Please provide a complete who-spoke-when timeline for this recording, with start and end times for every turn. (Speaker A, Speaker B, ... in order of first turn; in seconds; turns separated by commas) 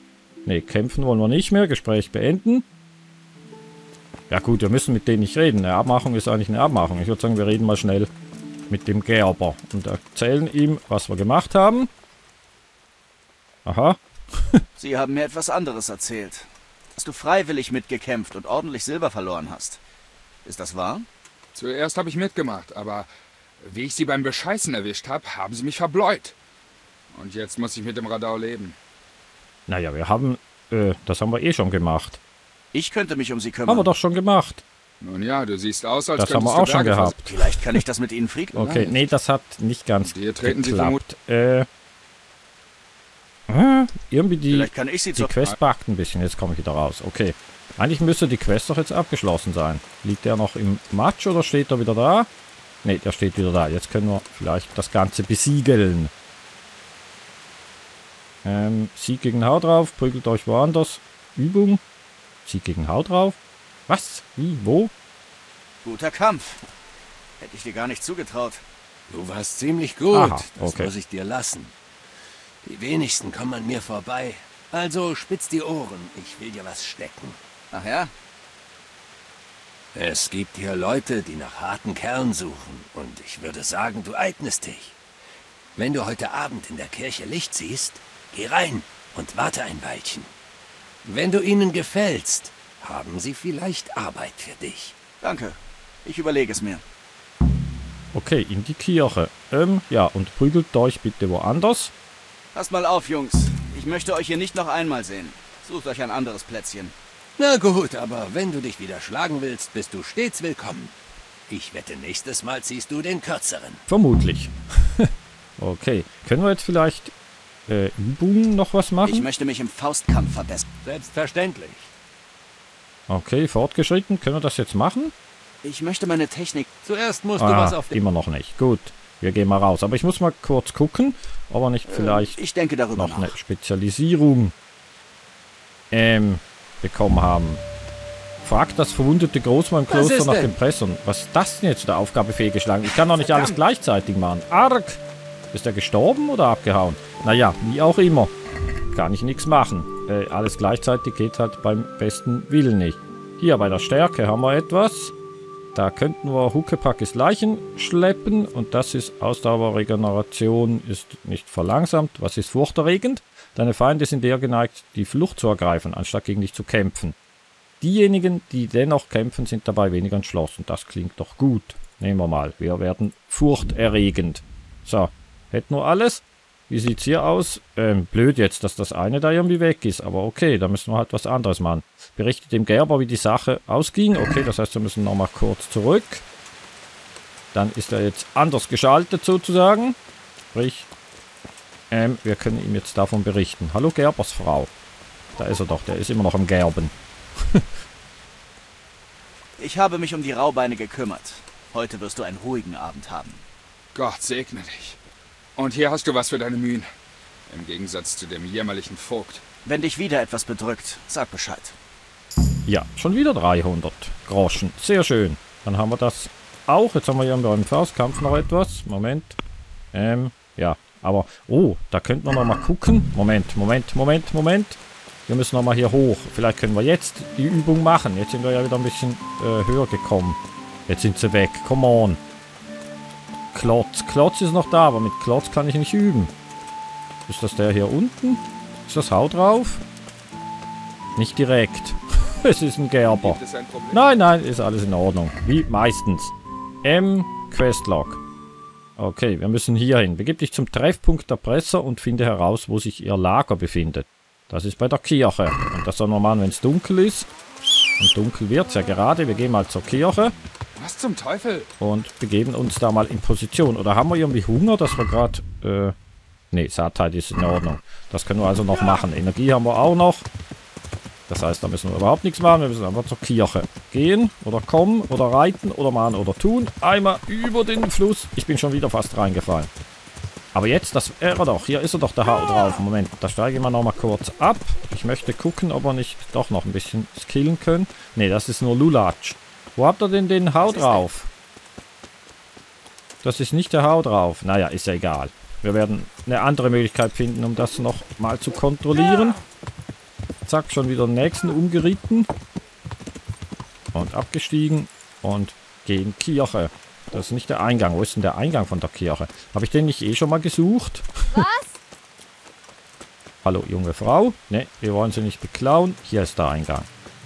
Speaker A: 0.4-2.6, Speaker A: 4.3-8.1, Speaker A: 8.7-11.9, Speaker A: 13.6-14.6, Speaker B: 14.8-19.8, Speaker B: 20.4-21.1, Speaker C: 21.5-23.1, Speaker C: 23.6-26.4, Speaker C: 27.1-28.8, Speaker A: 29.7-32.2, Speaker B: 32.7-33.9, Speaker A: 33.6-34.6, Speaker C: 35.0-37.2, Speaker A: 36.2-37.3, Speaker B: 37.3-38.5, Speaker A: 38.5-41.7, Speaker C: 38.5-39.0, Speaker C: 40.0-41.0, Speaker A: 43.5-52.3, Speaker B: 44.5-45.3, Speaker A: 52.8-56.1, Speaker A: 58.4-61.8, Speaker A: 62.4-63.4, Speaker A: 63.9-64.9, Speaker B: 65.8-66.6, Speaker B: 67.4-68.6, Speaker D: 69.1-71.7, Speaker A: 70.1-70.9, Speaker D: 72.6-77.4, Speaker B: 77.7-78.1, Speaker D: 79.9-85.0, Speaker D: 85.8-90.3, Speaker D: 91.0-94.9, Speaker B: 95.2-96.8, Speaker A: 98.1-101.9, Speaker B: 102.5-106.9, Speaker D: 107.4-110.9, Speaker D: 111.5-113.8, Speaker A: 113.9-117.1, Speaker A: 117.7-119.2, Speaker B: 119.0-120.7, Speaker D: 120.8-121.9, Speaker A: 123.1-125.1, Speaker B: 125.6-126.7, Speaker D: 126.8-128.0, Speaker A: 127.4-132.3, Speaker B: 131.9-133.3, Speaker A: 132.9-134.5, Speaker A: 135.9-137.6, Speaker A: 138.4-145.0, Speaker D: 139.9-140.5, Speaker A: 145.5-148.3, Speaker A: 148.9-155.1, Speaker A: 155.7-167.1, Speaker A: 167.8-186.2, Speaker A: 187.5-190.0, Speaker A: 190.5-190.9, Speaker A: 191.9-194.7, Speaker A: 195.4-196.9, Speaker B: 199.6-203.4, Speaker C: 203.9-205.0, Speaker C: 205.6-206.9, Speaker C: 207.5-209.4, Speaker B: 209.6-211.8, Speaker A: 212.7-219.3, Speaker A: 219.9-232.2, Speaker A: 233.5-236.3, Speaker A: 237.3-239.8, Speaker A: 241.2-246.3, Speaker C: 243.2-244.1, Speaker A: 246.8-248.2, Speaker A: 249.0-257.3, Speaker A: 258.0-260.3, Speaker C: 260.8-261.7, Speaker A: 261.8-265.9, Speaker A: 266.5-270.2, Speaker A: 271.3-279.7, Speaker A: 280.5-291.3, Speaker B: 290.6-291.0, Speaker A: 293.2-299.4, Speaker A: 300.4-302.3, Speaker A: 303.9-311.6, Speaker A: 313.4-316.9